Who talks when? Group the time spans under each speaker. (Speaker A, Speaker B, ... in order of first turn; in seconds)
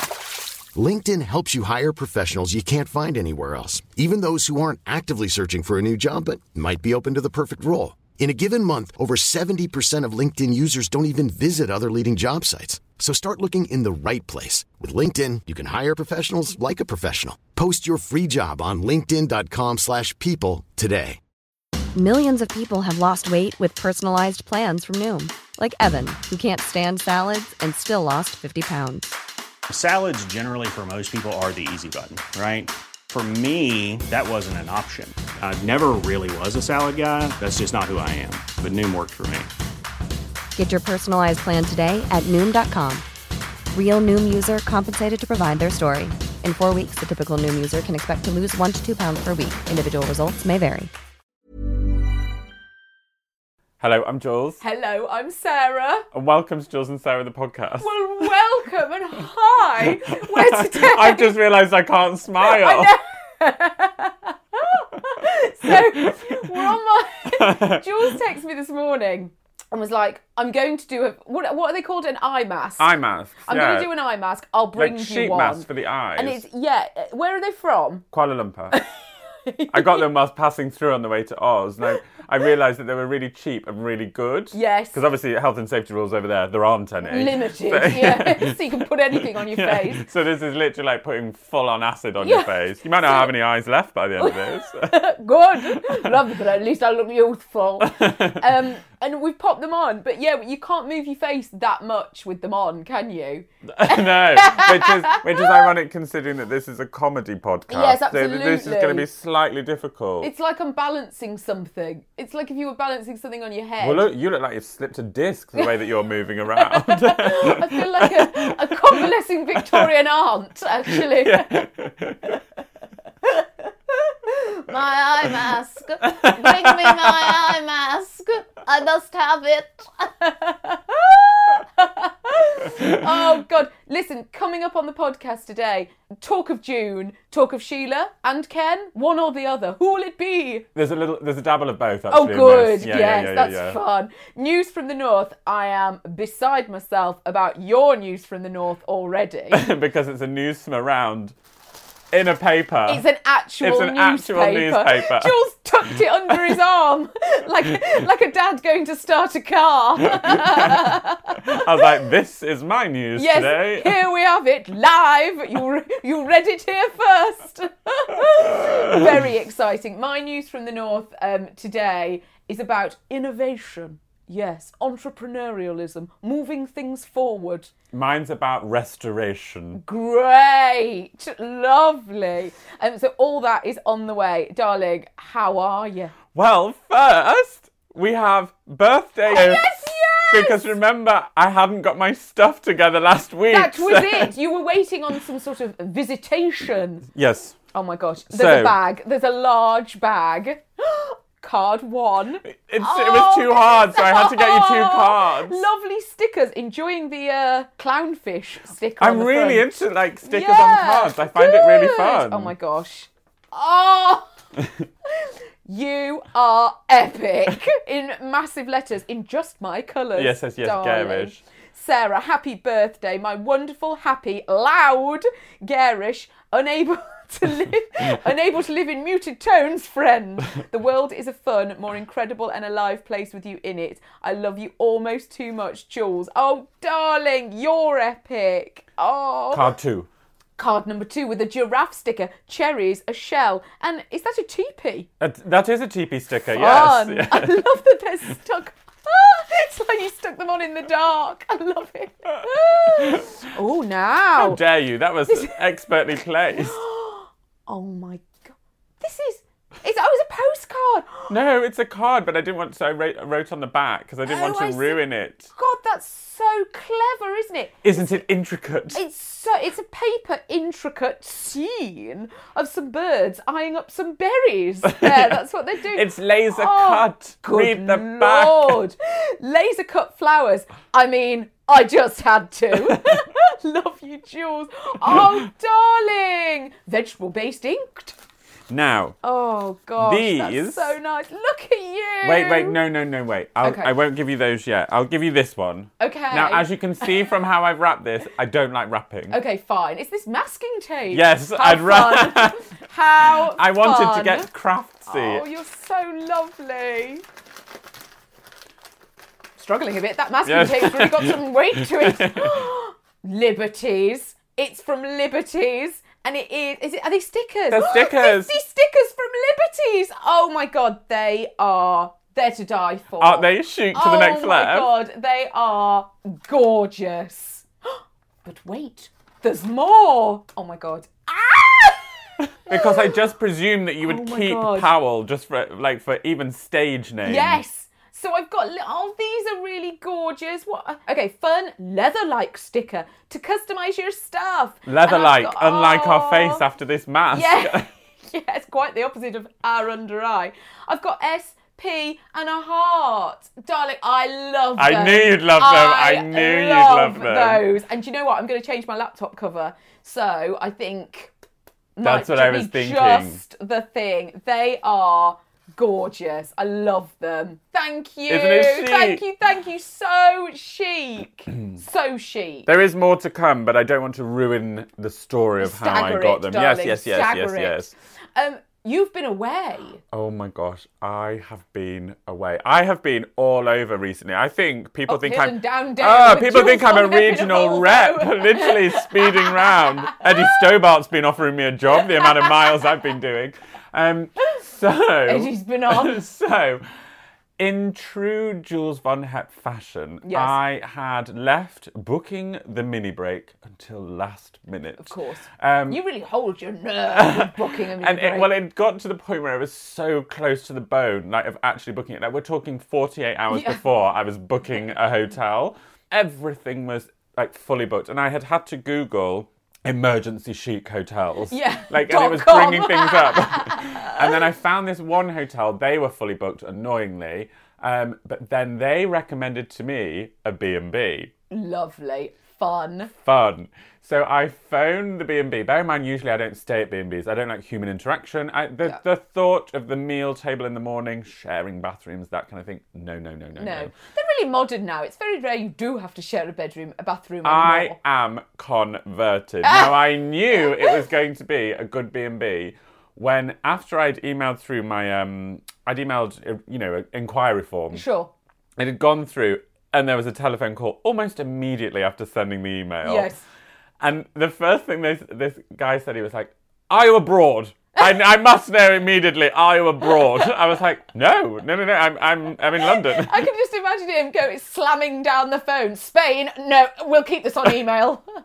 Speaker A: 0.7-21.2
Speaker B: 21.9-29.1, 40.5-43.0, 43.7-50.9
Speaker C: 29.7-39.5
Speaker D: 53.8-54.6, 56.1-58.3, 59.9-63.0, 65.7-66.6, 67.3-68.1, 72.8-73.9, 74.8-76.4, 78.1-78.8, 79.7-94.9, 95.7-96.1, 97.9-98.4, 103.7-110.3, 113.8-119.9, 120.9-122.4, 126.1-127.5, 140.7-143.8, 149.5-151.3, 152.1-153.0, 153.6-155.3, 160.3-160.7, 161.5-164.0, 177.9-179.8, 186.3-194.3, 197.1-197.6, 198.3-198.8, 202.5-205.7, 209.0-212.5, 220.1-221.4, 239.5-240.1, 245.2-247.6, 253.1-253.3, 254.4-256.8, 261.3-265.5, 267.8-269.0, 274.8-278.8, 288.7-289.2, 290.0-290.9, 292.2-299.4, 301.1-302.6, 303.2-305.4, 310.4-312.6, 317.7-318.5, 323.2-324.9, 332.7-337.6, 344.9-347.9, 354.8-357.7, 362.0-363.4, 368.3-369.2, 372.6-377.9, 380.1-396.8, 397.6-406.0, 407.1-431.3, 433.2-443.9, 447.4-458.0, 458.8-463.3, 464.0-473.4
Speaker E: 54.6-56.0, 57.8-61.4, 62.4-72.9, 73.4-78.0, 79.5-80.1, 84.5-85.0, 87.0-90.0, 92.2-93.3, 94.2-105.7, 107.7-109.1, 110.2-114.1, 116.6-121.7, 123.2-140.7, 142.1-149.6, 152.8-161.6, 163.2-177.7, 179.7-186.1, 189.3-190.7, 193.5-197.1, 197.7-209.7, 210.2-214.3, 215.2-239.7, 240.6-245.1, 246.5-254.6, 255.3-255.6, 256.5-261.3, 264.3-268.1, 268.9-288.1, 289.2-292.8, 293.6-293.9, 296.0-297.1, 299.3-304.5, 305.1-307.2, 309.6-332.1, 332.7-333.1, 334.0-334.9, 337.2-346.6, 347.3-361.3, 361.9-372.7, 375.6-380.0, 385.1-390.5, 391.9-392.9, 395.2-396.2, 400.2-400.6, 405.0-408.5, 413.5-413.8, 421.5-424.4, 431.5-433.1, 443.6-448.0, 449.6-451.0, 457.9-458.3, 463.0-463.4, 470.1-470.5, 472.8-478.2